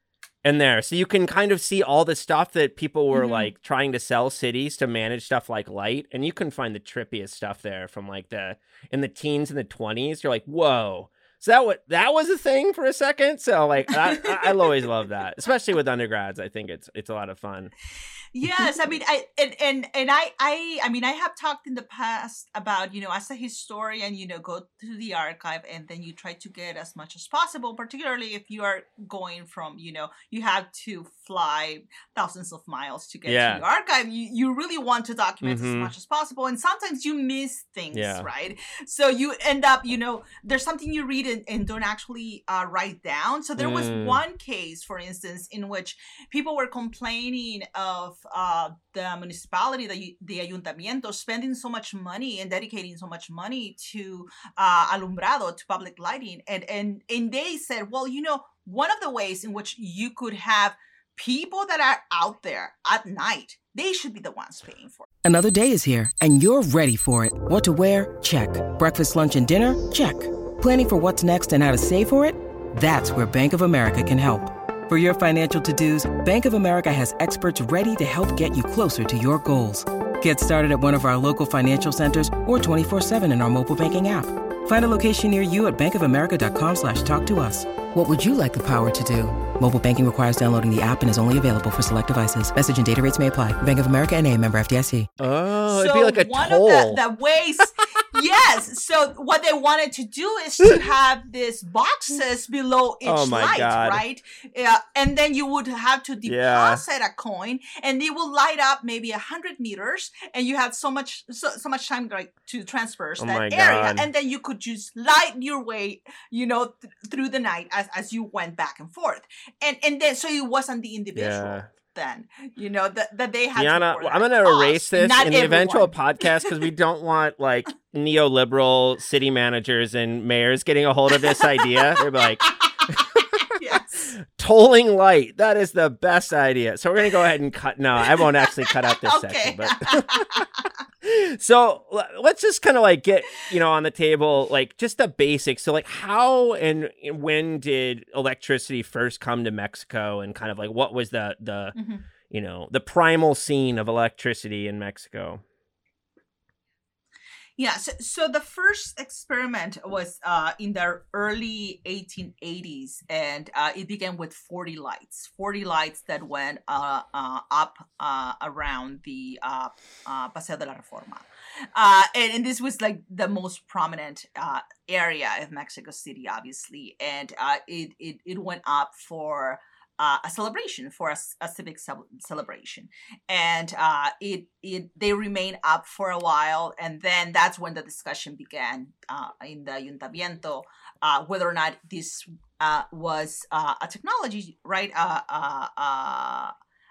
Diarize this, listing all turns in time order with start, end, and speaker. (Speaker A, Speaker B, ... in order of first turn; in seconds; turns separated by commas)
Speaker A: 0.4-17.7, Speaker B: 3.1-3.5, Speaker B: 13.9-14.8, Speaker B: 18.3-65.1, Speaker A: 33.3-33.6, Speaker A: 35.4-35.9, Speaker A: 37.9-38.3, Speaker A: 43.6-44.2, Speaker C: 65.2-95.1, Speaker A: 95.2-97.0, Speaker B: 95.7-126.7, Speaker A: 103.0-104.0, Speaker A: 106.2-106.8, Speaker A: 113.2-114.1, Speaker A: 121.1-121.7, Speaker A: 123.5-133.4, Speaker B: 131.1-134.1, Speaker A: 134.3-140.5, Speaker B: 138.0-140.7, Speaker A: 141.0-151.7, Speaker B: 151.7-152.0, Speaker A: 152.3-155.4, Speaker B: 157.6-196.5